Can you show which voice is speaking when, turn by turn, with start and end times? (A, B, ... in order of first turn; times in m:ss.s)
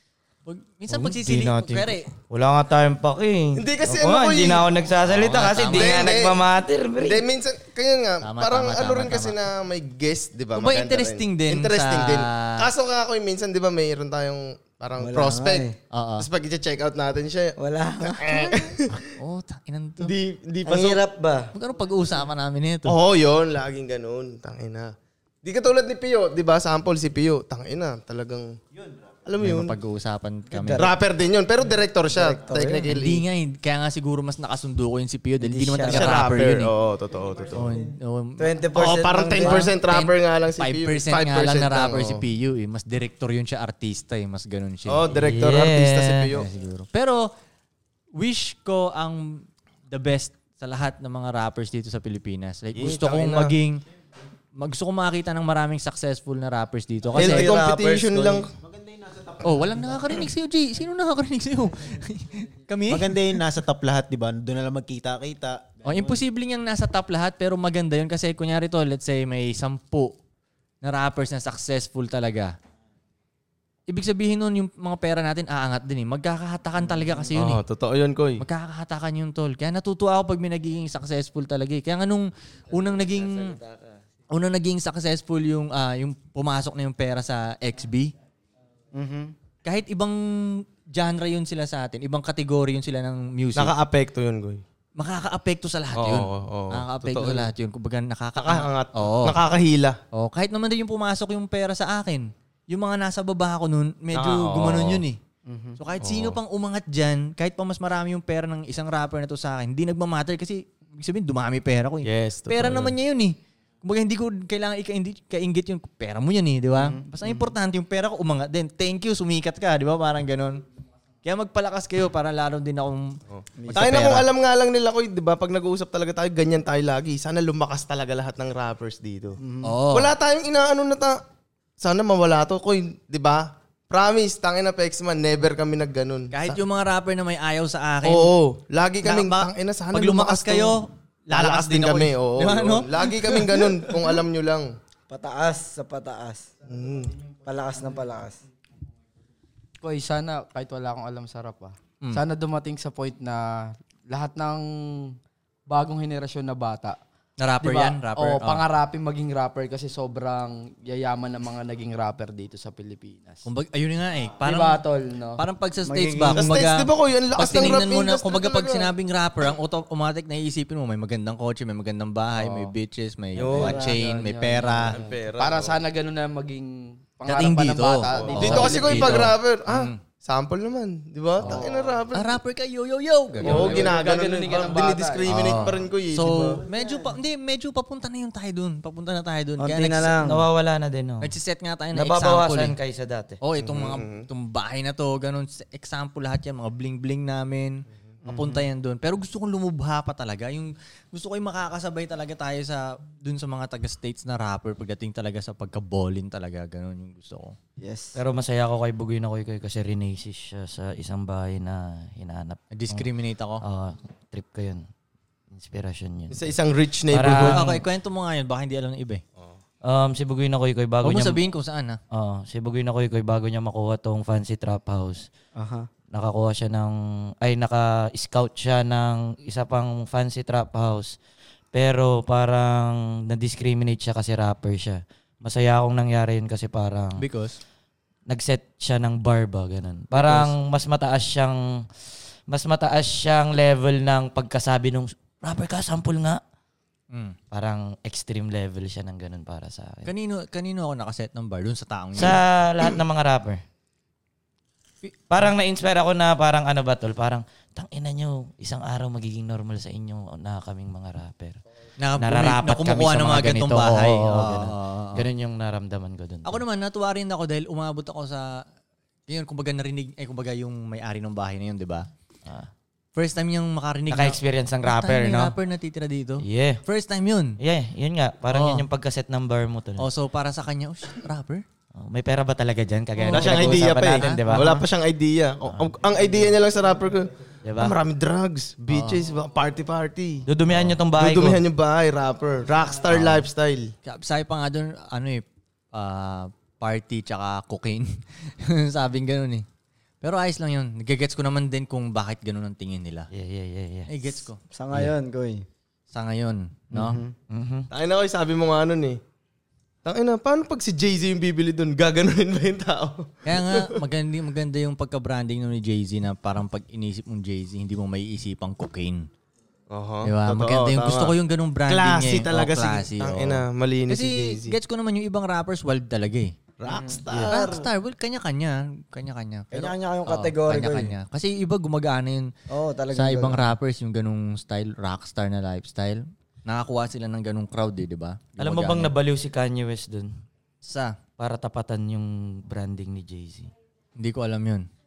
0:00.5-0:02.1 A
0:00.9-0:07.2 B
0:03.6-0:04.7 C
0:05.0-0:06.2 A
0:05.6-0:06.4 C
0:07.0-0:15.7 C
0:08.2-0:09.4 A
0:10.5-0:12.7 A
0:15.0-0:15.8 D
0:15.9-0:16.3 A
0:16.2-0:19.0 C
0:17.6-0:18.7 D
0:18.9-0:20.1 A
0:20.0-0:21.0 C
0:20.6-0:21.5 D
0:21.5-0:23.0 A
0:22.9-0:28.6 C
0:29.2-0:29.8 C
0:29.4-0:30.9 A
0:30.5-0:30.9 D
0:30.7-0:33.2 C
0:32.1-0:33.0 D
0:32.9-0:36.7 A
0:35.4-0:36.3 D
0:35.8-0:37.7 C
0:37.5-0:38.5 A
0:38.4-0:39.7 D
0:38.7-0:42.2 C
0:39.4-0:45.1 A
0:44.9-0:46.5 C
0:45.1-0:46.3 B
0:46.3-0:47.3 A
0:48.2-0:53.8 A
0:52.8-0:53.5 C
0:54.6-0:57.6 A
0:57.1-0:58.4 D
0:57.1-0:58.5 C
0:58.5-1:00.2 E
0:59.4-1:03.4 A
1:02.9-1:06.2 E
1:05.8-1:10.2 A
1:10.8-1:12.5 A
1:13.9-1:17.6 A
1:17.3-1:18.4 C
1:18.4-1:23.6 A
1:24.3-1:28.1 A
1:28.9-1:29.3 D
1:29.6-1:33.7 A
1:33.6-1:34.6 C
1:35.0-1:39.4 A
1:36.0-1:37.5 C
1:38.4-1:40.0 C
1:40.1-1:45.2 A
1:44.1-1:45.0 C
1:45.5-1:45.8 D
1:45.8-2:00.6 A
1:46.0-1:46.4 C
1:52.1-1:52.9 C
1:56.8-1:57.5 D
2:01.2-2:04.3 A
2:03.3-2:09.4 C
2:03.6-2:04.0 D
2:09.4-2:09.7 D
2:09.6-2:10.1 A
2:09.9-2:11.2 C
2:11.8-2:16.6 C
2:16.3-2:18.3 A
2:18.0-2:20.8 C
2:19.0-2:24.2 A
2:21.3-2:24.7 C
2:25.1-2:26.5 D
2:26.7-2:27.1 C
2:27.4-2:28.4 D
2:29.8-2:35.2 F
2:35.7-2:37.0 F
2:37.4-2:38.6 A
2:37.6-2:43.4 F
2:43.4-2:44.8 A
2:44.4-2:45.4 F
2:45.4-2:55.0 A
2:45.8-2:46.6 D
2:46.3-2:48.9 C
2:53.4-2:53.9 C
2:53.4-2:53.9 D
2:53.5-2:59.3 F
2:54.9-2:55.8 C
2:57.2-3:00.0 A
2:58.0-3:02.4 C
3:01.4-3:03.9 A
3:01.4-3:02.0 F
3:03.4-3:06.6 C
3:03.4-3:05.5 F
3:05.2-3:10.2 A
3:09.6-3:10.5 D
3:10.2-3:11.3 B
3:11.2-3:12.8 A
3:12.0-3:13.4 B
3:13.4-3:27.6 A
3:13.6-3:14.3 C
3:27.8-3:28.1 D
3:28.2-3:33.0 B
3:32.7-3:33.6 A
3:33.6-3:34.8 B
3:35.5-3:36.5 B
3:36.3-3:37.6 C
3:37.1-3:37.8 B
3:37.3-3:39.2 A
3:39.8-3:41.4 B
3:41.0-3:42.0 A
3:42.1-3:45.2 B
3:45.6-3:45.9 D
3:46.1-3:51.2 B
3:51.7-3:57.2 B
3:57.2-3:57.6 A
3:58.3-4:01.8 B
4:00.1-4:00.5 A
4:02.5-4:06.4 B
4:07.5-4:10.1 B
4:10.0-4:12.4 A
4:12.2-4:13.6 B
4:15.3-4:21.6 B
4:22.0-4:25.2 A
4:22.2-4:26.6 B
4:26.4-4:28.7 A
4:29.3-4:32.1 A
4:33.2-4:37.6 A
4:34.1-4:35.5 B
4:36.4-4:36.8 B
4:37.6-4:40.1 B
4:38.5-4:38.8 A
4:40.0-4:41.6 A
4:42.0-4:44.8 B
4:43.3-4:43.9 A
4:43.3-4:50.4 C
4:47.6-4:48.0 B
4:48.9-4:49.2 A
4:50.5-4:51.6 B
4:51.2-4:53.9 C
4:53.1-4:53.4 A
4:54.0-4:59.7 A
5:00.2-5:03.3 A
5:03.3-5:04.3 B
5:04.1-5:05.1 A
5:04.7-5:05.7 D
5:06.1-5:07.2 A
5:06.9-5:07.3 D
5:07.5-5:07.9 B
5:07.9-5:09.2 C
5:10.0-5:13.9 C
5:13.4-5:19.3 A
5:19.9-5:21.3 C
5:20.2-5:26.6 A
5:21.8-5:24.8 C
5:26.8-5:27.9 C
5:26.9-5:27.2 D
5:27.3-5:32.5 A
5:29.7-5:31.1 D
5:32.7-5:33.8 D
5:33.1-5:39.1 A
5:38.6-5:40.3 B
5:40.8-5:41.2 A
5:41.4-5:43.7 B
5:44.2-5:44.9 A